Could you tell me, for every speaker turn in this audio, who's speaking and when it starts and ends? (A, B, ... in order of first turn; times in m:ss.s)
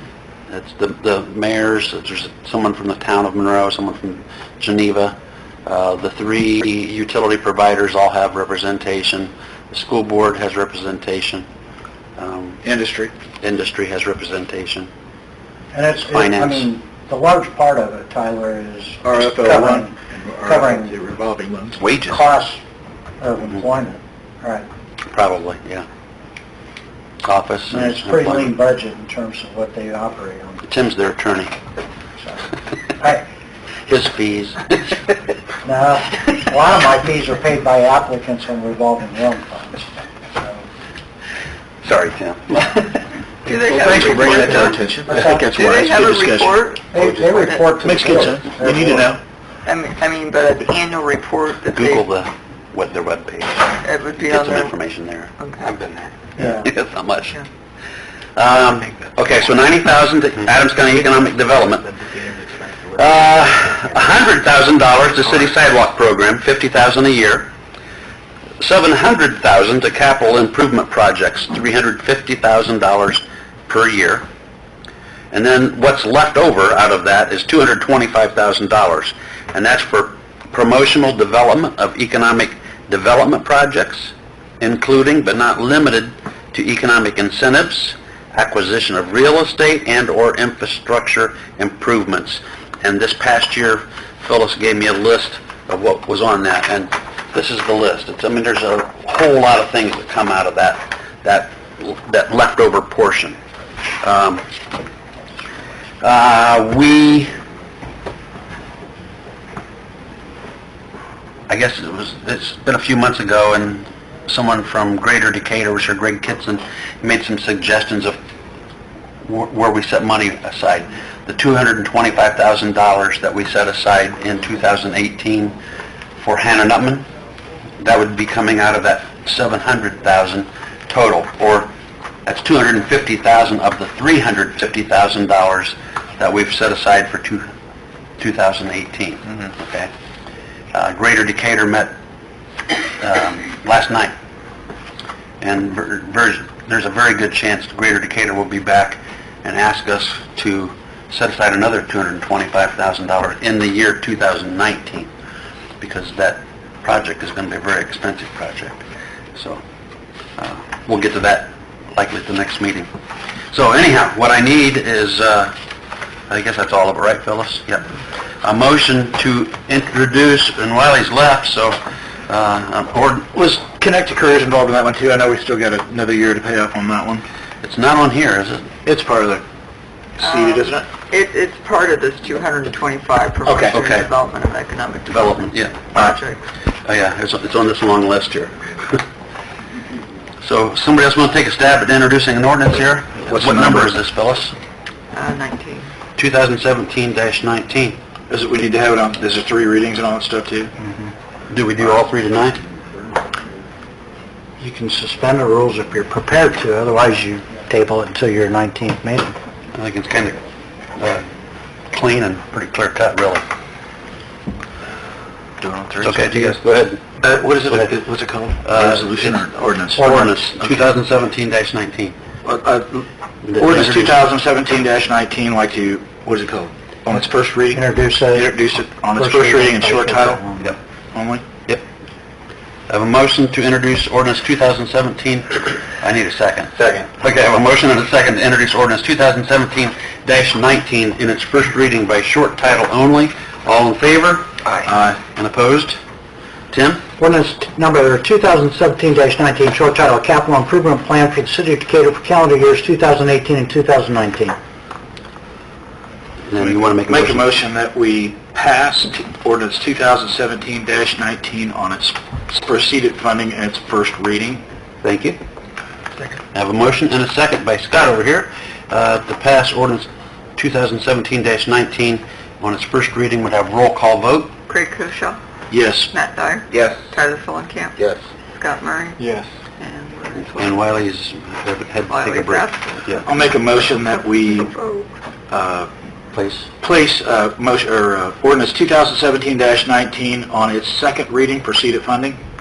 0:00.5-0:05.2 A
0:05.7-0:11.5 A
0:12.2-0:12.6 A
0:12.6-0:13.1 B
0:13.4-0:14.9 A
0:15.7-0:20.0 C
0:16.1-0:16.7 A
0:19.0-0:21.8 B
0:20.5-0:20.9 C
0:21.8-0:22.1 A
0:22.0-0:22.6 C
0:23.2-0:24.7 C
0:25.1-0:25.9 A
0:27.2-0:28.5 A
0:27.7-0:30.6 C
0:30.7-0:31.5 A
0:32.2-0:33.2 C
0:33.9-0:35.0 A
0:35.6-0:40.6 C
0:41.8-0:43.0 A
0:43.4-0:47.7 D
0:43.7-0:46.6 B
0:43.8-0:44.6 A
0:45.1-0:45.6 C
0:46.9-0:49.1 C
0:47.8-0:49.2 B
0:49.6-0:52.1 D
0:51.7-0:57.4 A
0:53.8-0:54.8 D
0:55.4-0:55.8 D
0:56.4-0:56.7 C
0:58.4-1:02.1 A
1:02.8-1:07.5 A
1:08.6-1:14.3 A
1:15.3-1:43.4 A
1:44.0-1:44.4 A
1:46.0-1:47.3 A
1:51.5-1:58.2 A
1:59.2-2:05.6 A
2:06.2-2:07.1 A
2:07.8-2:11.7 A
2:12.3-2:17.5 A
2:18.2-2:19.9 A
2:20.7-2:21.9 A
2:23.0-2:24.1 A
2:25.4-2:35.1 A
2:35.8-2:39.6 A
2:40.4-2:42.9 A
2:43.5-2:45.6 A
2:46.3-2:47.9 A
2:48.4-2:53.4 A
2:53.4-2:57.2 B
2:57.6-2:58.7 A
2:58.8-2:59.4 B
3:00.2-3:00.9 B
3:00.2-3:06.4 D
3:03.4-3:03.8 B
3:03.7-3:04.1 A
3:05.1-3:06.2 A
3:06.8-3:09.0 A
3:10.4-3:14.6 A
3:13.3-3:14.0 B
3:15.1-3:15.9 D
3:16.2-3:18.0 A
3:18.3-3:20.7 B
3:21.5-3:22.6 A
3:24.6-3:29.4 C
3:29.7-3:30.4 A
3:31.0-3:31.3 A
3:31.9-3:33.4 A
3:35.6-3:36.6 B
3:36.0-3:37.2 A
3:37.2-3:40.4 B
3:38.6-3:39.4 A
3:39.9-3:42.2 A
3:42.4-3:43.1 B
3:43.4-3:44.2 A
3:43.6-3:50.4 B
3:47.7-3:48.6 C
3:49.2-3:50.8 C
3:51.1-3:51.4 B
3:52.9-4:06.0 A
4:04.8-4:05.2 B
4:06.7-4:07.1 A
4:07.2-4:14.6 C
4:16.5-4:17.5 A
4:16.6-4:24.6 B
4:25.0-4:25.4 A
4:26.5-4:34.5 A
4:34.7-4:35.4 D
4:35.7-4:36.1 B
4:36.1-4:38.0 D
4:38.6-4:39.2 D
4:39.8-4:40.8 D
4:40.5-4:43.2 A
4:42.1-4:45.1 D
4:43.3-4:44.7 B
4:45.5-4:45.9 B
4:46.3-4:46.7 A
4:46.8-4:52.4 B